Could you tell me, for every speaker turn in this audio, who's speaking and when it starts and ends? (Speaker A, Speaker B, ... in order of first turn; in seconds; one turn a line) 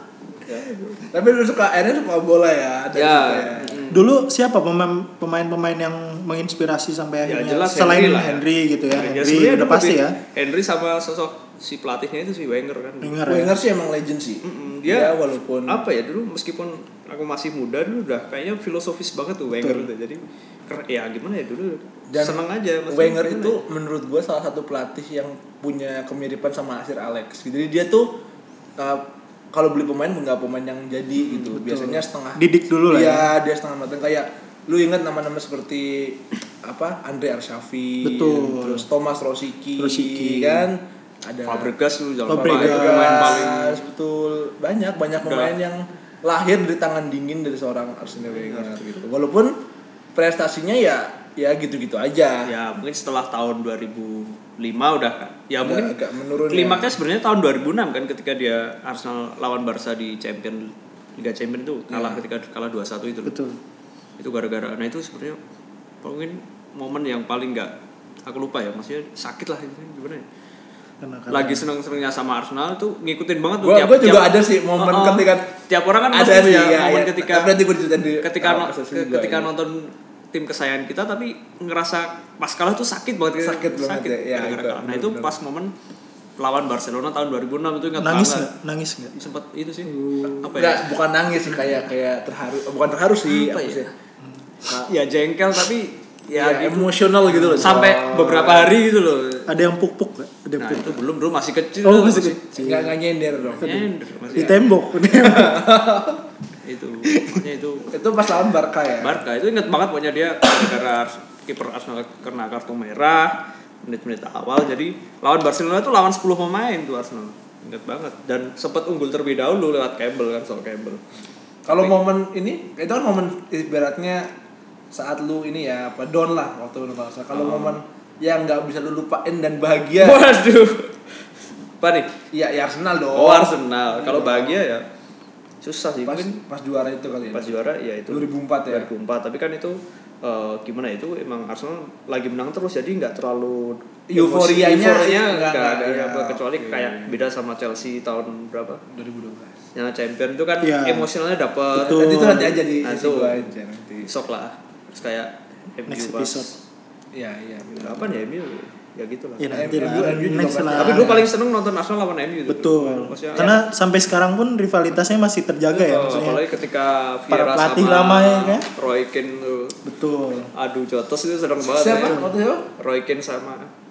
Speaker A: 0.4-1.1
Speaker B: 1.1-3.9
Speaker A: 2.9-4.0
Speaker C: 3.9-10.2
Speaker A: 7.2-13.2
Speaker C: 13.0-13.6
Speaker B: 13.2-15.9
Speaker A: 14.4-23.6
Speaker C: 19.5-19.9
Speaker B: 22.1-28.1
Speaker B: 28.8-41.7
Speaker C: 31.3-33.3
Speaker C: 38.0-38.9
Speaker C: 39.8-40.7
Speaker A: 41.4-43.8
Speaker C: 42.3-43.5
Speaker B: 42.4-49.5
Speaker A: 45.2-45.5
Speaker A: 48.2-49.0
Speaker B: 50.1-52.4
Speaker A: 52.5-55.9
Speaker B: 55.6-57.0
Speaker A: 56.5-63.3
Speaker B: 61.9-62.2
Speaker C: 63.2-63.6
Speaker A: 64.2-65.4
Speaker A: 66.0-67.7
Speaker A: 68.2-70.2
Speaker C: 71.0-71.7
Speaker A: 71.3-77.5
Speaker B: 73.6-75.5
Speaker B: 76.1-79.5
Speaker A: 78.2-85.7
Speaker B: 83.4-85.4
Speaker A: 86.4-88.5
Speaker C: 88.0-89.3
Speaker A: 89.1-90.8
Speaker C: 89.8-90.6
Speaker B: 90.3-93.9
Speaker A: 93.2-93.9
Speaker A: 94.7-96.9
Speaker B: 96.3-98.7
Speaker C: 97.3-98.7
Speaker A: 97.6-99.5
Speaker C: 99.5-101.0
Speaker A: 100.6-102.4
Speaker C: 101.8-103.0
Speaker B: 102.5-103.7
Speaker A: 103.5-104.6
Speaker C: 103.6-105.7
Speaker B: 104.3-106.2
Speaker A: 106.6-108.0
Speaker B: 107.9-109.2
Speaker A: 109.0-113.3
Speaker A: 113.8-121.0
Speaker B: 121.7-124.3
Speaker A: 121.7-121.9
Speaker B: 124.9-130.2
Speaker A: 127.3-127.8
Speaker A: 130.0-130.9
Speaker A: 131.8-132.1
Speaker B: 132.3-134.7
Speaker A: 133.1-134.8
Speaker A: 135.6-136.4
Speaker B: 136.0-138.9
Speaker A: 137.3-148.8
Speaker B: 144.1-147.2
Speaker B: 148.9-149.6
Speaker A: 149.7-152.0
Speaker C: 150.6-151.1
Speaker B: 151.8-154.1
Speaker C: 151.8-152.6
Speaker A: 152.8-153.5
Speaker A: 154.0-156.6
Speaker C: 155.9-156.5
Speaker B: 157.1-158.2
Speaker A: 157.7-159.7
Speaker C: 159.4-161.3
Speaker B: 159.5-161.3
Speaker A: 160.7-163.6
Speaker C: 162.5-166.4
Speaker A: 165.7-169.8
Speaker C: 167.3-168.7
Speaker C: 169.8-170.5
Speaker A: 170.5-172.2
Speaker B: 171.6-172.7
Speaker C: 172.0-172.3
Speaker A: 172.8-173.7